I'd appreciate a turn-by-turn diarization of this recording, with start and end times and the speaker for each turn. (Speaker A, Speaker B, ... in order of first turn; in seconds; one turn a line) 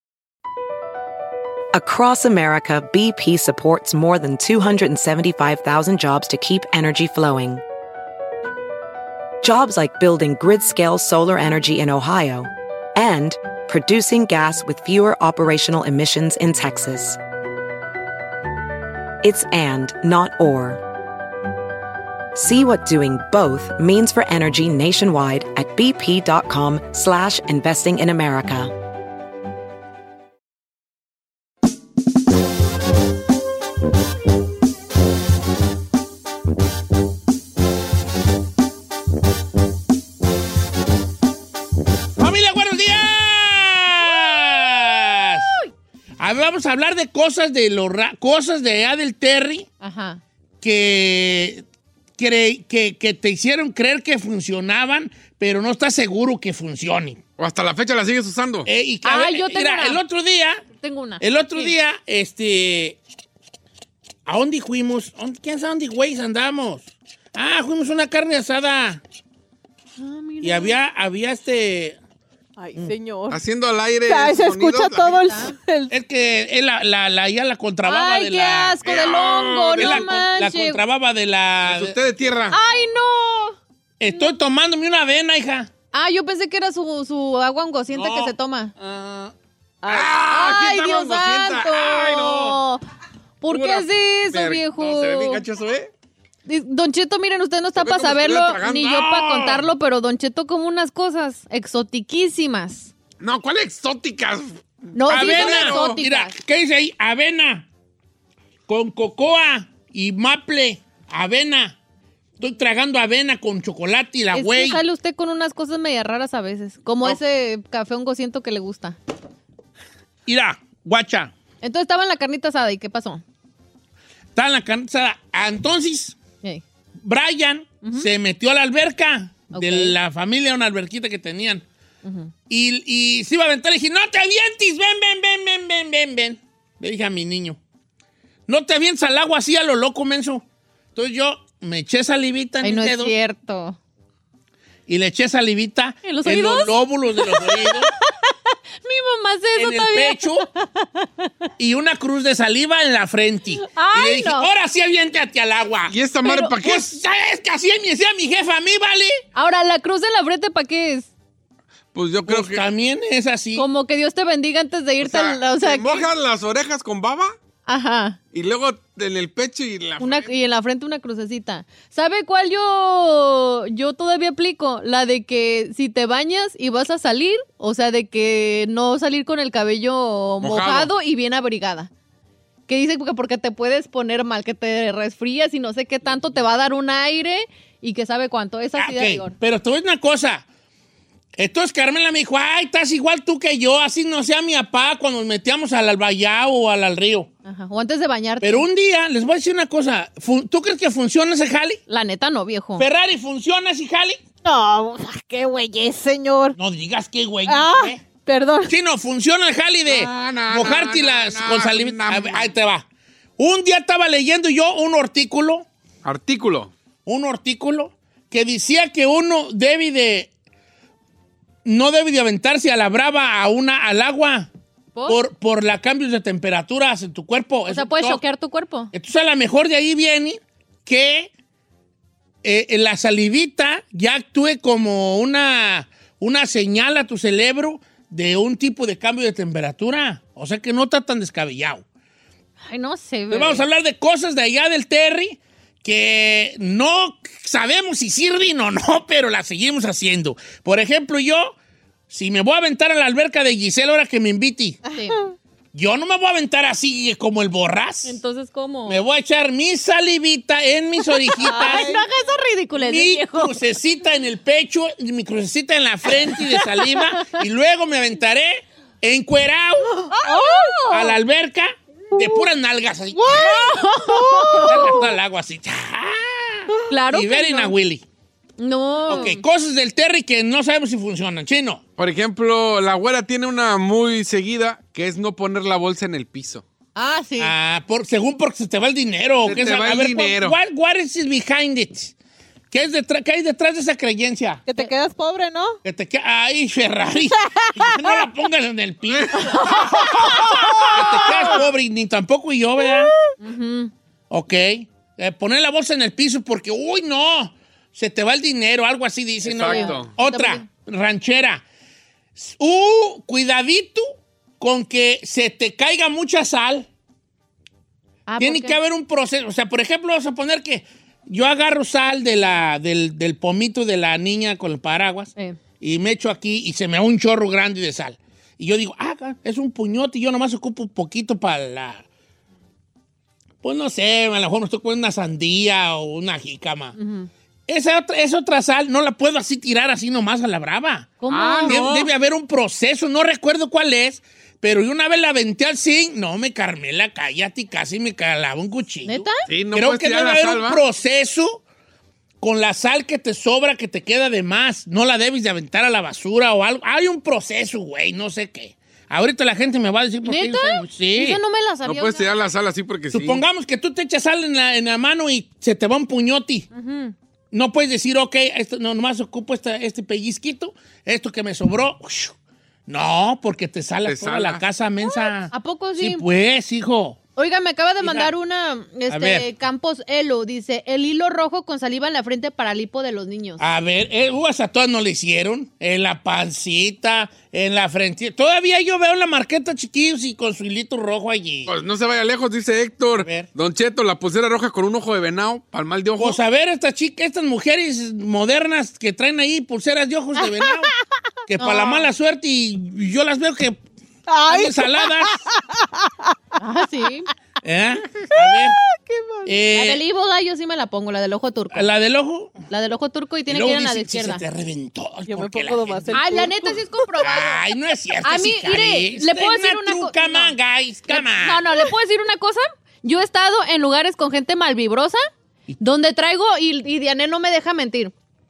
Speaker A: 1.7-7.6
Speaker A: 9.4-17.2
Speaker A: 19.2-20.8
Speaker A: 22.3-28.7
Speaker B: 42.2-45.5
Speaker B: 46.2-49.7
Speaker C: 49.8-50.2
Speaker B: 50.6-51.6
Speaker B: 52.2-57.2
Speaker D: 57.4-58.7
Speaker B: 58.7-60.6
Speaker C: 59.0-60.0
Speaker C: 60.8-61.7
Speaker B: 61.2-63.0
Speaker B: 64.2-69.0
Speaker C: 70.0-70.7
Speaker B: 70.4-72.0
Speaker E: 72.6-73.4
Speaker D: 73.3-75.2
Speaker E: 74.0-75.9
Speaker C: 75.2-75.5
Speaker B: 75.9-78.8
Speaker C: 77.8-80.8
Speaker D: 78.8-80.1
Speaker B: 79.8-81.9
Speaker D: 81.6-82.6
Speaker C: 82.5-84.3
Speaker B: 84.0-85.7
Speaker C: 85.9-88.7
Speaker D: 87.9-88.3
Speaker B: 88.8-89.3
Speaker E: 89.8-90.2
Speaker D: 89.9-92.6
Speaker C: 90.2-92.8
Speaker C: 93.4-95.4
Speaker D: 93.5-95.9
Speaker C: 96.5-102.9
Speaker D: 97.8-99.6
Speaker D: 103.2-106.0
Speaker C: 104.9-106.3
Speaker B: 105.1-107.7
Speaker B: 108.7-111.8
Speaker B: 112.4-114.8
Speaker C: 114.3-119.0
Speaker B: 120.2-121.3
Speaker C: 121.6-123.2
Speaker B: 124.3-126.2
Speaker B: 127.0-131.6
Speaker C: 129.5-129.9
Speaker C: 132.0-132.3
Speaker B: 132.5-137.6
Speaker B: 138.5-140.4
Speaker B: 140.9-143.1
Speaker C: 142.6-143.8
Speaker B: 144.9-147.9
Speaker C: 146.0-146.7
Speaker C: 148.8-150.2
Speaker B: 149.6-150.5
Speaker E: 150.6-151.1
Speaker B: 151.6-155.9
Speaker C: 153.6-154.5
Speaker D: 155.9-156.9
Speaker C: 156.2-156.6
Speaker B: 156.6-159.2
Speaker C: 159.3-161.1
Speaker D: 161.9-162.7
Speaker B: 162.3-163.6
Speaker C: 163.6-166.1
Speaker D: 165.0-167.3
Speaker C: 167.7-168.2
Speaker D: 168.3-170.3
Speaker C: 170.0-181.9
Speaker D: 180.4-180.9
Speaker C: 182.7-189.3
Speaker B: 188.8-190.4
Speaker B: 191.3-197.3
Speaker C: 197.4-198.7
Speaker B: 198.4-201.8
Speaker C: 201.9-202.8
Speaker B: 202.8-204.2
Speaker E: 204.4-206.6
Speaker B: 206.6-208.0
Speaker E: 207.5-208.7
Speaker B: 208.6-212.8
Speaker D: 209.9-212.5
Speaker B: 213.4-215.7
Speaker D: 216.0-216.7
Speaker B: 217.1-220.3
Speaker B: 221.6-224.5
Speaker B: 225.1-228.2
Speaker C: 227.7-228.9
Speaker B: 228.9-231.3
Speaker B: 232.4-241.8
Speaker C: 242.7-243.7
Speaker B: 243.3-251.6
Speaker B: 252.1-254.8
Speaker E: 254.9-255.3
Speaker C: 254.9-255.2
Speaker B: 255.7-258.2
Speaker C: 258.0-259.0
Speaker B: 258.9-261.9
Speaker C: 261.2-263.5
Speaker E: 261.4-262.0
Speaker B: 262.7-270.0
Speaker E: 270.0-270.8
Speaker C: 270.2-271.1
Speaker B: 270.9-273.7
Speaker E: 273.1-275.0
Speaker C: 273.5-275.0
Speaker B: 274.6-278.0
Speaker C: 276.9-277.7
Speaker C: 278.6-279.4
Speaker B: 279.1-281.8
Speaker D: 282.0-286.6
Speaker C: 286.9-287.5
Speaker B: 287.4-292.1
Speaker D: 289.4-290.6
Speaker B: 292.7-294.6
Speaker E: 294.7-295.8
Speaker B: 295.8-300.2
Speaker E: 297.8-298.1
Speaker E: 299.3-301.3
Speaker B: 300.7-303.1
Speaker C: 303.4-303.9
Speaker B: 304.3-311.6
Speaker D: 309.4-310.1
Speaker C: 309.6-310.6
Speaker B: 312.4-314.1
Speaker B: 314.6-316.9
Speaker C: 318.3-318.8
Speaker B: 318.4-332.0
Speaker B: 333.6-336.9
Speaker C: 336.9-337.3
Speaker B: 337.7-351.6
Speaker C: 341.2-341.8
Speaker D: 341.3-342.1
Speaker C: 349.1-349.4
Speaker D: 349.4-350.8
Speaker B: 352.4-361.4
Speaker C: 360.2-362.4
Speaker D: 361.8-363.4
Speaker B: 363.1-366.7
Speaker C: 366.7-367.1
Speaker B: 367.5-372.3
Speaker B: 372.9-377.2
Speaker D: 374.1-374.6
Speaker C: 375.0-376.2
Speaker C: 377.4-383.6
Speaker B: 378.0-378.3
Speaker B: 379.1-379.5
Speaker B: 383.6-391.7
Speaker D: 391.7-396.4
Speaker B: 393.2-393.5
Speaker B: 396.2-400.9
Speaker E: 400.4-400.7
Speaker B: 401.5-403.8
Speaker C: 401.6-402.0
Speaker E: 404.3-406.4
Speaker B: 404.5-405.4
Speaker C: 406.6-407.3
Speaker B: 407.6-408.8
Speaker E: 408.3-409.5
Speaker B: 409.4-410.0
Speaker C: 409.7-411.9
Speaker B: 411.7-412.6
Speaker C: 412.7-414.4
Speaker B: 413.5-416.5
Speaker E: 415.3-416.8
Speaker C: 416.1-417.6
Speaker B: 417.2-421.6
Speaker C: 418.2-420.5
Speaker C: 421.1-425.2
Speaker C: 425.8-428.1